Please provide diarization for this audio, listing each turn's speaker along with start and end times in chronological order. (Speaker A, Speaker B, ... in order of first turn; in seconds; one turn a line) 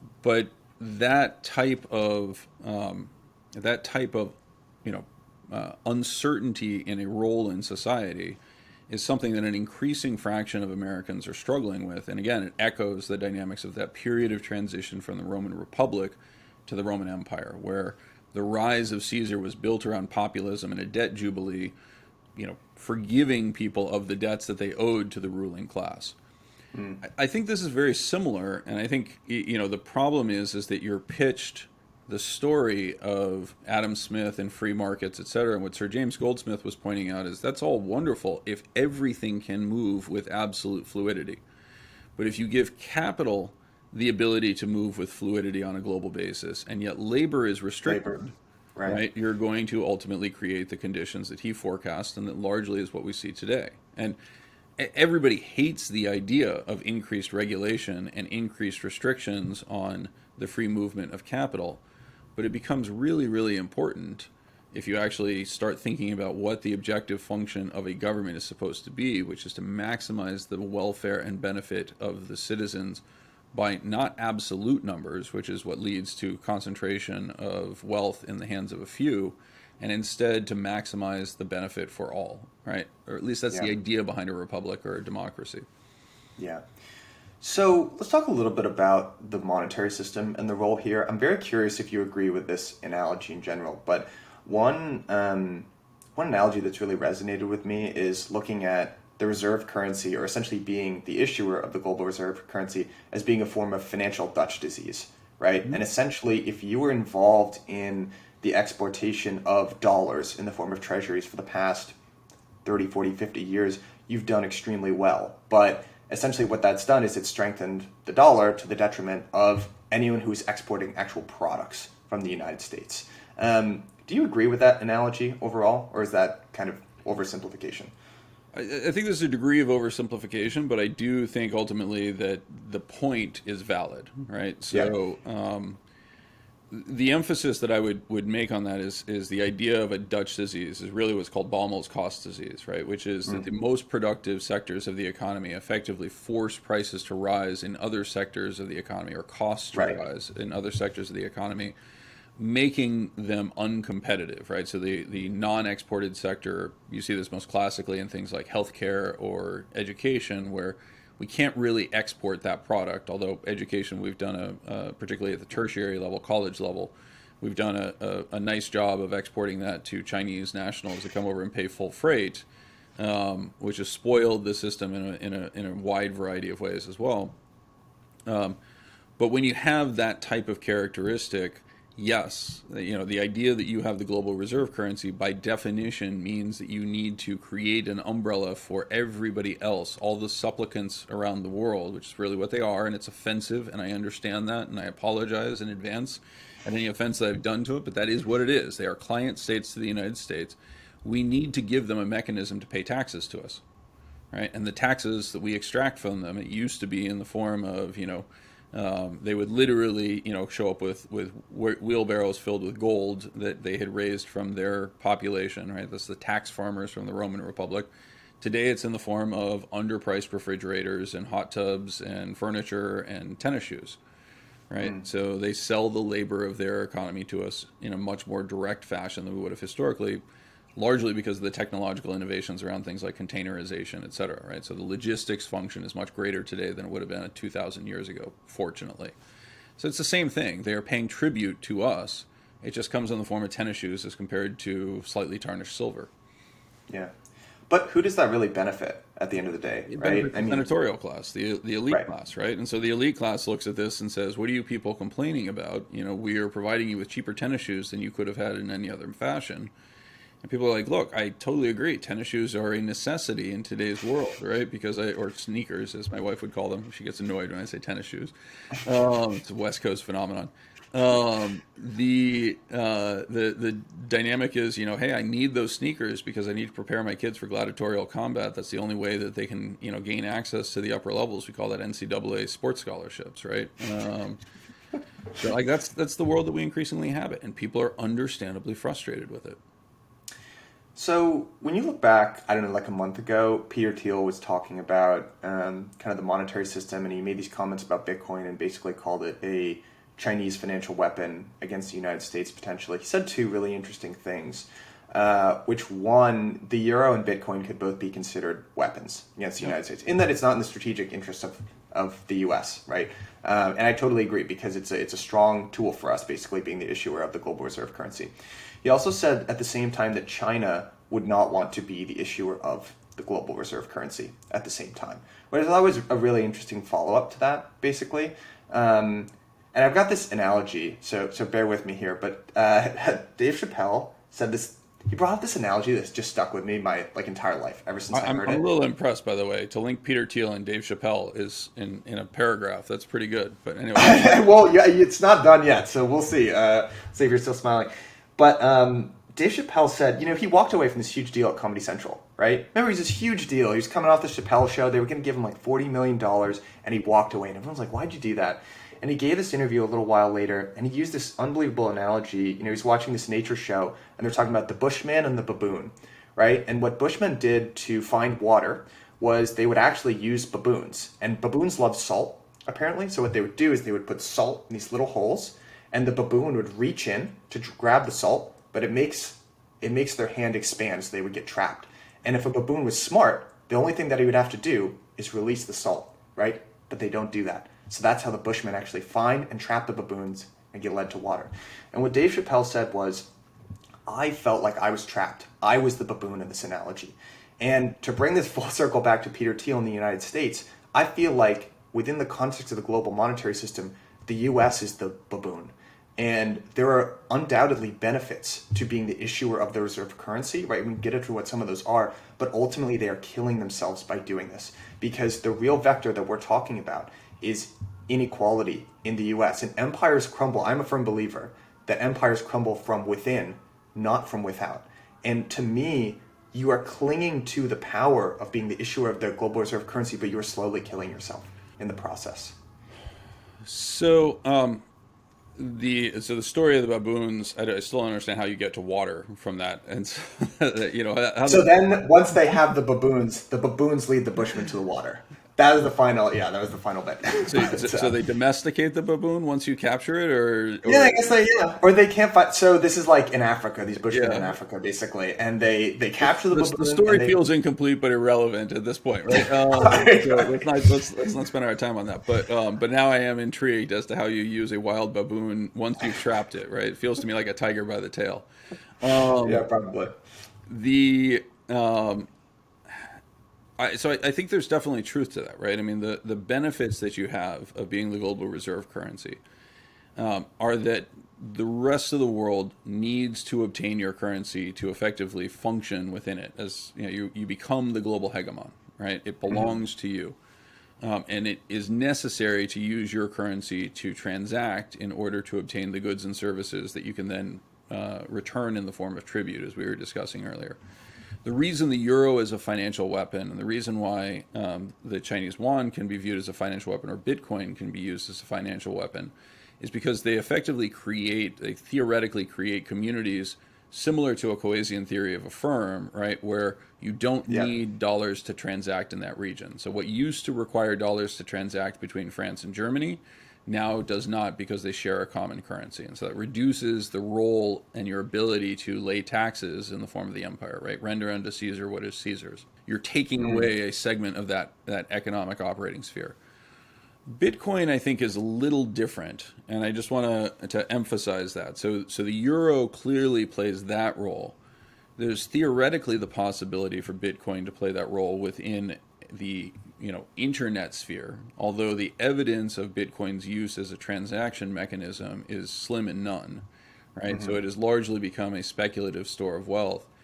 Speaker A: 0.2-21.8
Speaker A: 22.4-26.1
Speaker B: 26.7-27.0
Speaker A: 27.0-41.4
Speaker A: 42.2-48.3
Speaker B: 47.9-48.2
Speaker B: 48.8-49.0
Speaker A: 48.9-54.2
Speaker A: 54.8-61.8
Speaker A: 62.4-85.6
Speaker B: 86.4-86.6
Speaker B: 87.4-112.0
Speaker B: 112.6-127.9
Speaker A: 128.5-135.8
Speaker A: 136.7-151.7
Speaker A: 152.4-172.4
Speaker A: 173.0-177.4
Speaker A: 178.3-178.6
Speaker A: 179.2-203.6
Speaker A: 204.3-217.9
Speaker A: 218.4-224.0
Speaker A: 224.7-230.2
Speaker A: 230.8-239.1
Speaker A: 239.8-246.1
Speaker B: 246.9-247.1
Speaker B: 247.7-250.7
Speaker A: 249.9-259.7
Speaker A: 260.4-284.4
Speaker A: 285.4-289.6
Speaker B: 290.9-318.3
Speaker B: 318.8-338.6
Speaker A: 338.1-344.5
Speaker B: 343.9-393.3
Speaker B: 394.1-432.6
Speaker A: 433.6-434.8
Speaker A: 435.6-441.7
Speaker B: 441.5-448.1
Speaker A: 447.4-451.3
Speaker B: 450.9-457.4
Speaker A: 454.1-454.6
Speaker A: 456.4-468.5
Speaker B: 459.3-460.7
Speaker A: 469.0-469.6
Speaker B: 469.4-470.2
Speaker A: 470.7-472.3
Speaker A: 473.8-479.4
Speaker A: 480.1-490.4
Speaker B: 489.5-489.8
Speaker A: 491.0-500.8
Speaker A: 501.4-536.4
Speaker B: 533.4-533.6
Speaker A: 537.3-544.6
Speaker A: 545.2-556.6
Speaker A: 557.1-560.1
Speaker B: 557.3-557.6